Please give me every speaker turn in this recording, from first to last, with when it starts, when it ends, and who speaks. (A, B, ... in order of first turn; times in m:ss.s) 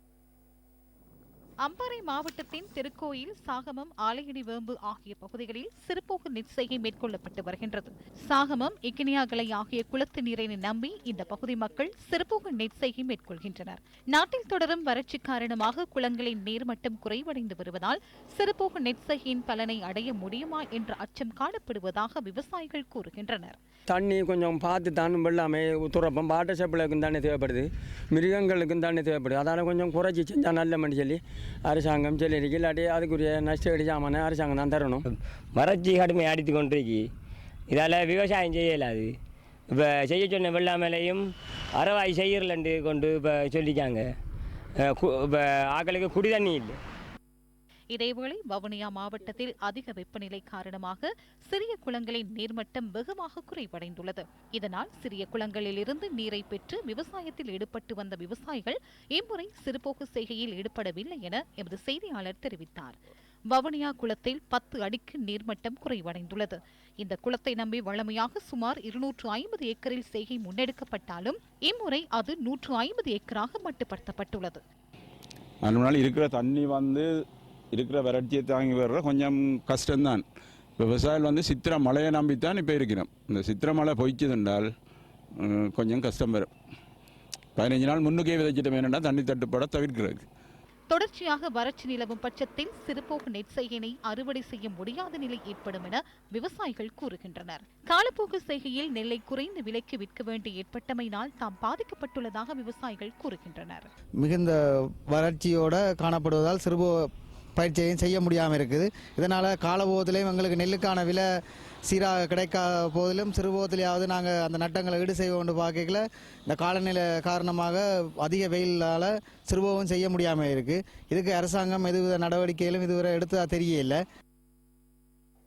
0:01.6-0:23.6 A
0:23.9-0:35.0 B
0:35.5-0:37.0 C
0:37.7-0:39.1 C
0:39.7-0:44.1 C
0:44.8-0:46.8 C
0:47.9-1:03.0 A
1:03.5-1:14.6 A
1:15.6-1:17.1 D
1:17.7-1:20.2 D
1:20.8-1:24.7 D
1:25.4-1:26.5 D
1:27.6-1:30.2 D
1:30.9-1:43.9 A
1:44.2-1:51.2 E
1:51.9-2:04.0 E